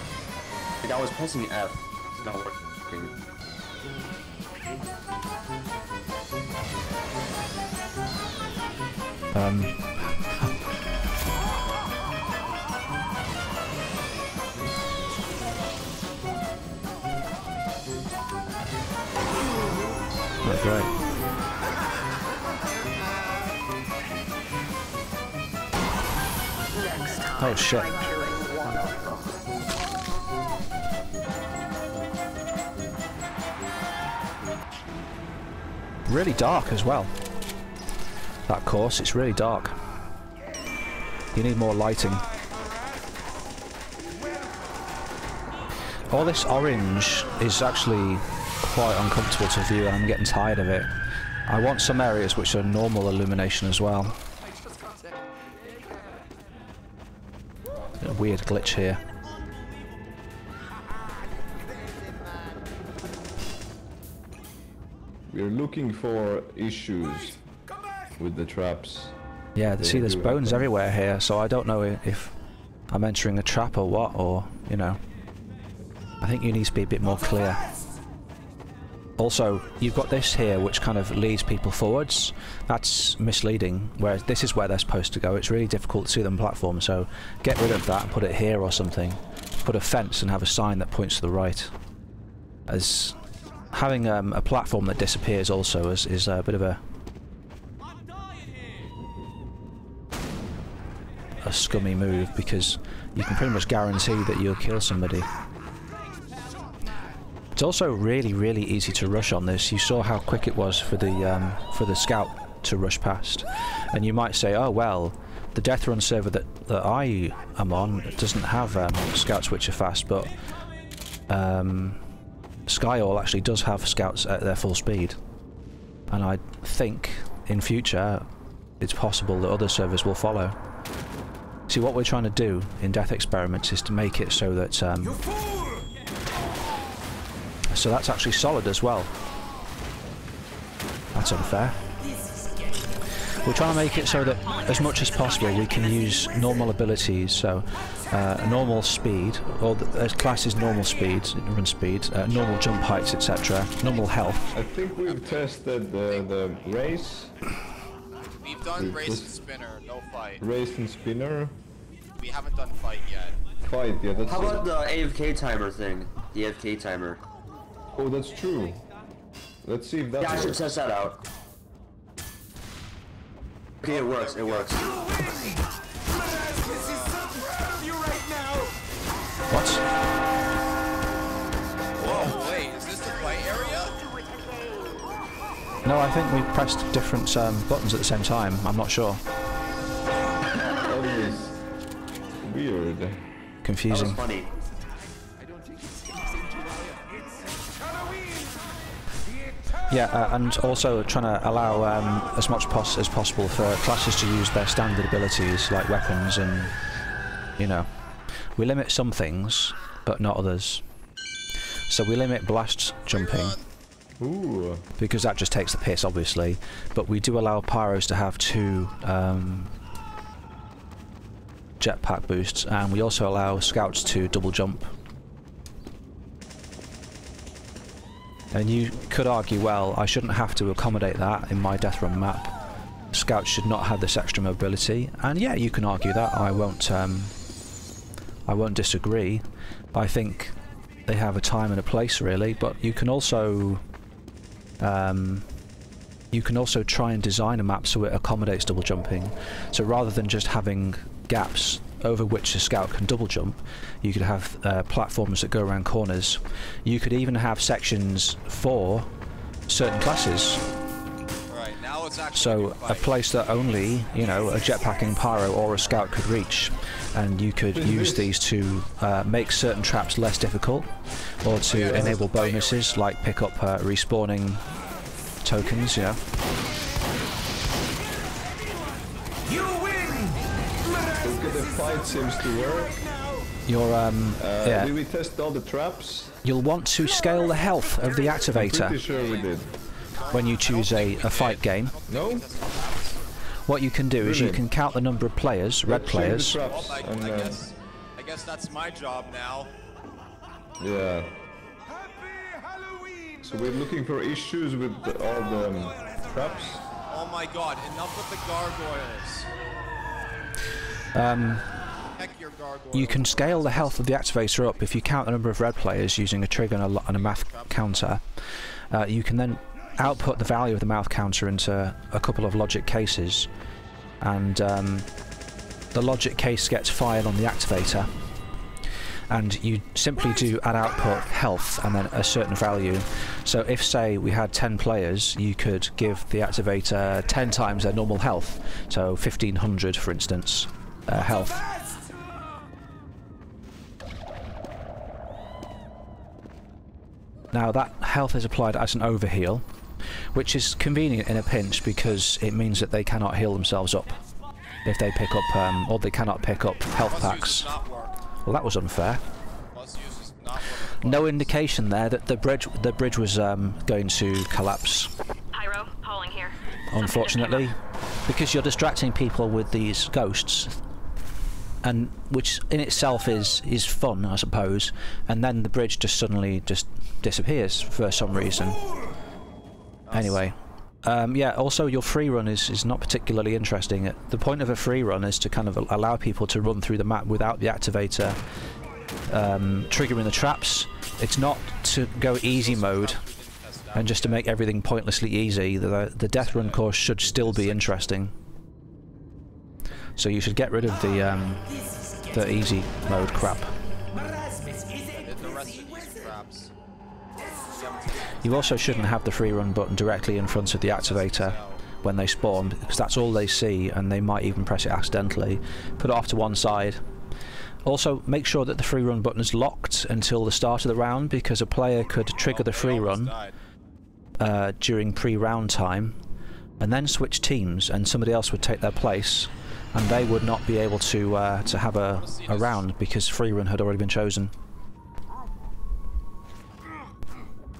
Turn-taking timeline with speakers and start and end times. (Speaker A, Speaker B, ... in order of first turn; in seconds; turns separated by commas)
Speaker A: 0.8-3.1, Speaker B: 9.3-10.4, Speaker B: 20.4-21.0, Speaker B: 27.3-28.1, Speaker B: 36.1-37.1, Speaker B: 38.5-39.7, Speaker B: 41.3-42.3, Speaker B: 46.1-50.9, Speaker B: 51.5-54.2, Speaker B: 58.0-59.0, Speaker C: 65.3-67.4, Speaker C: 68.2-70.7, Speaker B: 69.5-72.3, Speaker B: 72.9-75.0, Speaker B: 76.2-77.6, Speaker D: 77.1-77.8, Speaker B: 79.2-91.7, Speaker B: 92.7-93.2, Speaker B: 93.7-96.8, Speaker B: 101.4-105.3, Speaker B: 107.5-120.3, Speaker B: 121.3-122.0, Speaker B: 122.7-125.2, Speaker B: 126.1-128.2, Speaker B: 128.8-130.6, Speaker B: 131.7-135.2, Speaker D: 135.1-135.8, Speaker B: 137.7-139.1, Speaker B: 141.1-141.8, Speaker D: 142.0-143.2, Speaker B: 143.3-154.5, Speaker E: 143.5-146.1, Speaker D: 145.7-146.5, Speaker C: 154.5-157.3, Speaker F: 155.0-155.5, Speaker F: 156.1-156.6, Speaker F: 158.4-160.4, Speaker C: 158.8-159.3, Speaker C: 160.4-161.6, Speaker F: 162.2-163.4, Speaker C: 163.6-164.7, Speaker A: 164.3-167.2, Speaker C: 167.9-168.8, Speaker C: 169.6-170.7, Speaker A: 170.2-171.2, Speaker A: 173.8-174.9, Speaker F: 173.8-175.2, Speaker D: 174.8-178.8, Speaker B: 179.5-179.8, Speaker F: 182.0-184.0, Speaker C: 182.0-182.4, Speaker B: 185.8-189.2, Speaker C: 190.6-191.6, Speaker C: 192.4-193.2, Speaker B: 193.6-194.2, Speaker A: 193.9-194.5, Speaker D: 195.4-198.5, Speaker B: 199.9-206.7, Speaker B: 207.6-207.9, Speaker B: 208.6-210.8, Speaker B: 211.9-213.6, Speaker F: 213.1-213.6, Speaker C: 214.2-214.8, Speaker B: 215.0-219.7, Speaker B: 221.8-224.9, Speaker B: 228.5-232.5, Speaker B: 233.1-237.3, Speaker B: 238.4-240.5, Speaker B: 241.1-243.8, Speaker B: 244.8-245.5, Speaker B: 246.3-259.1, Speaker B: 259.7-260.6, Speaker F: 261.5-263.2, Speaker B: 262.3-274.7, Speaker C: 267.7-268.3, Speaker F: 271.6-273.1, Speaker C: 271.8-272.2, Speaker B: 275.4-276.2, Speaker D: 278.3-283.5, Speaker C: 281.2-283.0, Speaker B: 283.7-284.9, Speaker C: 284.4-286.4, Speaker B: 286.4-289.0, Speaker C: 288.5-289.7, Speaker F: 289.0-293.2, Speaker B: 290.3-291.9, Speaker C: 292.1-292.4, Speaker B: 293.6-296.6, Speaker C: 294.2-294.7, Speaker C: 295.8-297.6, Speaker F: 296.6-299.7, Speaker C: 300.8-301.3, Speaker D: 302.4-303.2, Speaker C: 303.4-306.9, Speaker D: 305.9-306.4, Speaker F: 307.1-309.5, Speaker B: 311.1-311.7, Speaker F: 312.1-314.0, Speaker B: 312.9-318.4, Speaker F: 317.1-318.1, Speaker B: 318.9-323.5, Speaker B: 324.2-325.1, Speaker B: 325.9-328.1, Speaker B: 329.3-341.6, Speaker D: 341.2-342.0, Speaker B: 347.5-349.6, Speaker B: 350.3-354.2, Speaker B: 354.8-357.7, Speaker F: 357.1-358.2, Speaker B: 358.4-359.2, Speaker F: 359.7-361.5, Speaker B: 361.0-365.1, Speaker E: 365.5-367.7, Speaker B: 366.9-370.8, Speaker B: 371.8-378.8, Speaker F: 380.0-380.4, Speaker B: 380.1-388.4, Speaker B: 389.3-393.2, Speaker F: 392.4-394.5, Speaker B: 393.9-398.3, Speaker F: 396.4-398.1, Speaker B: 400.2-401.7, Speaker D: 401.6-406.3, Speaker B: 402.3-403.7, Speaker F: 405.1-406.7, Speaker D: 407.4-408.3, Speaker F: 407.6-408.7, Speaker B: 408.4-417.0, Speaker F: 410.8-413.5, Speaker B: 417.8-423.3, Speaker F: 422.4-423.6, Speaker B: 424.4-426.2, Speaker B: 426.8-434.5, Speaker F: 432.1-432.9